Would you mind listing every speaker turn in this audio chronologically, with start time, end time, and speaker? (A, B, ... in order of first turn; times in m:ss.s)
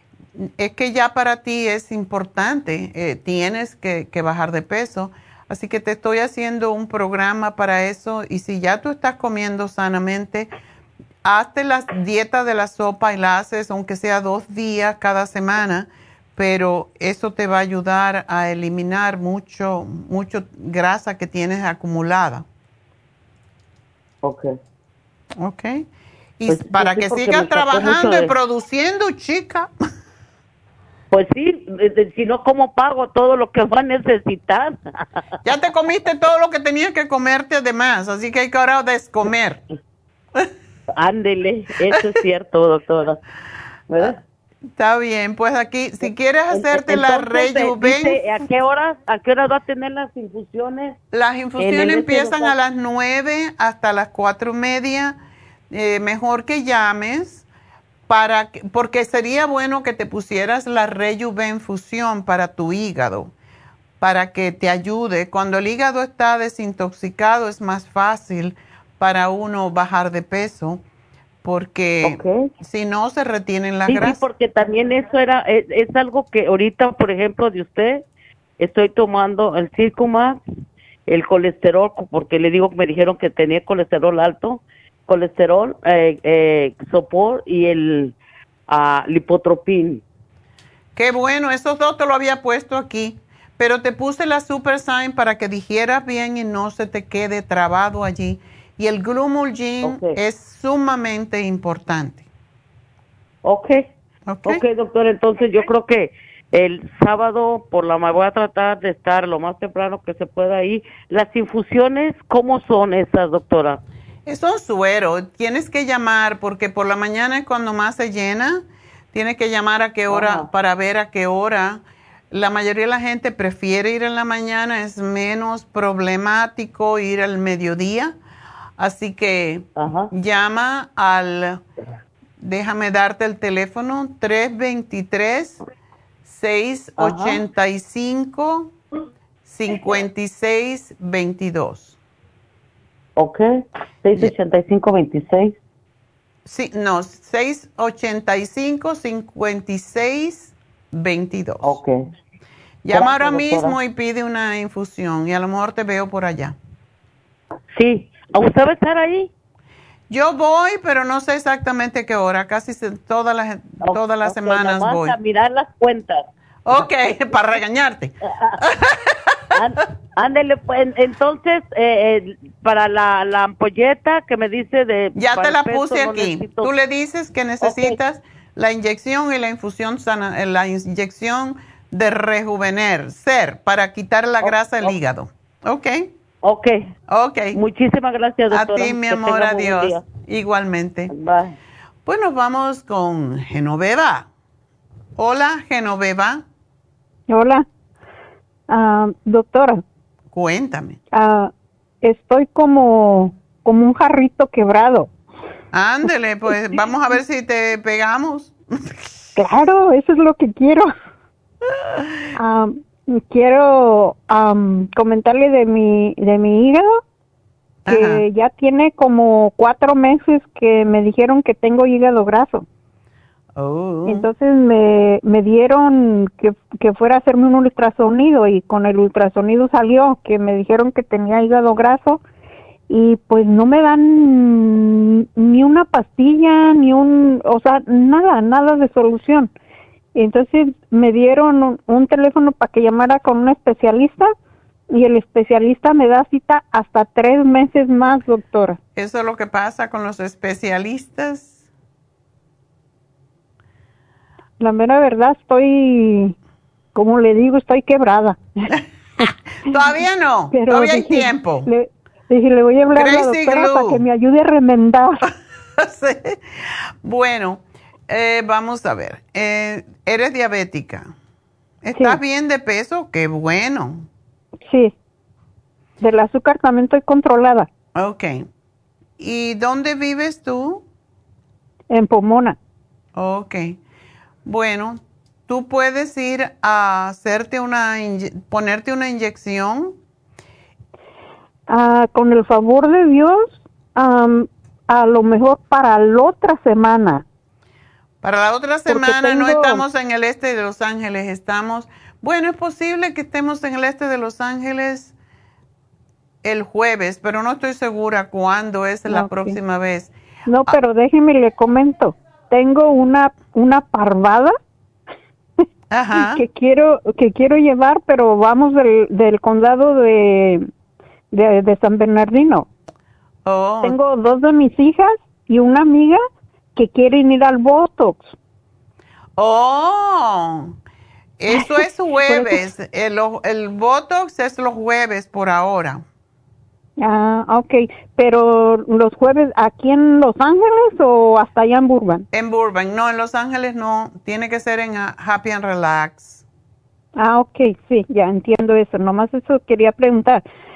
0:00.4-0:10.5 A
0:11.2-0:22.4 A
0:24.2-0:24.5 B
0:25.4-0:25.8 A
0:26.4-0:29.7 A
0:26.5-0:28.3 B
0:31.1-0:34.8 B
0:35.4-0:39.6 A
0:40.9-0:43.2 B
0:43.9-0:44.2 B
0:44.8-0:48.2 A
0:46.0-0:51.0 B
0:51.1-0:55.2 A
0:51.6-0:52.5 B
0:55.7-0:57.4 A
0:58.1-1:03.3 A
1:04.0-1:10.8 A
1:11.4-1:14.2 A
1:12.0-1:12.5 B
1:13.9-1:18.0 B
1:18.6-1:20.4 B
1:21.1-1:28.1 B
1:28.7-1:30.0 B
1:31.0-1:42.2 A
1:39.8-1:40.2 B
1:43.4-1:43.8 B
1:44.3-1:44.6 A
1:44.4-1:53.8 B
1:54.2-2:01.8 A
2:00.1-2:00.5 B
2:02.3-2:08.1 A
2:08.8-2:11.6 A
2:09.8-2:10.1 B
2:12.4-2:15.6 A
2:16.2-2:18.7 A
2:17.0-2:17.4 B
2:19.4-2:21.9 A
2:23.2-2:23.4 B
2:24.0-2:25.6 B
2:26.4-2:31.8 A
2:31.6-2:31.9 B
2:32.8-2:36.6 A
2:32.9-2:33.8 B
2:37.7-2:39.3 B
2:40.1-2:45.2 A
2:43.8-2:46.9 B
2:46.6-2:49.0 A
2:48.3-2:48.6 B
2:49.5-2:56.7 B
2:55.2-3:06.1 A
2:57.6-2:58.0 B
3:04.4-3:04.9 B
3:06.4-3:06.7 B
3:07.1-3:07.6 A
3:07.5-3:10.0 B
3:08.5-3:11.1 A
3:11.1-3:11.6 B
3:12.0-3:14.3 A
3:15.2-3:16.4 A
3:17.3-3:17.6 C
3:18.7-3:19.8 C
3:20.3-3:21.0 A
3:21.1-3:21.5 C
3:22.0-3:25.1 C
3:25.7-3:28.9 A
3:29.4-3:30.9 C
3:32.3-3:37.0 C
3:37.8-3:38.2 A
3:37.9-3:42.6 C
3:43.6-3:44.3 A
3:44.0-3:52.2 C
3:52.9-3:59.5 C
4:00.1-4:04.3 C
4:04.9-4:08.8 C
4:09.0-4:11.5 A
4:14.6-4:16.3 C
4:16.9-4:18.7 C
4:19.6-4:21.7 A
4:20.5-4:25.2 C
4:22.9-4:24.0 A
4:25.8-4:26.4 A
4:27.0-4:31.1 A
4:31.8-4:34.0 A
4:31.9-4:32.2 C
4:34.6-4:34.9 C
4:36.0-4:37.7 C
4:37.9-4:38.4 A
4:39.2-4:40.8 A
4:41.9-4:42.6 C
4:43.2-4:43.8 A
4:44.4-4:50.0 A
4:51.7-4:57.2 C
4:58.2-5:05.1 A
4:58.9-4:59.8 C
5:06.4-5:10.1 A
5:09.1-5:09.6 C
5:10.5-5:14.6 C
5:15.9-5:16.4 A
5:16.1-5:20.6 C
5:21.3-5:22.7 C
5:23.4-5:24.0 A
5:23.8-5:26.2 C
5:26.8-5:28.3 C
5:29.4-5:30.7 A
5:31.4-5:36.0 A
5:31.5-5:32.7 C
5:37.0-5:42.2 C
5:42.3-5:46.4 A
5:47.1-5:50.4 C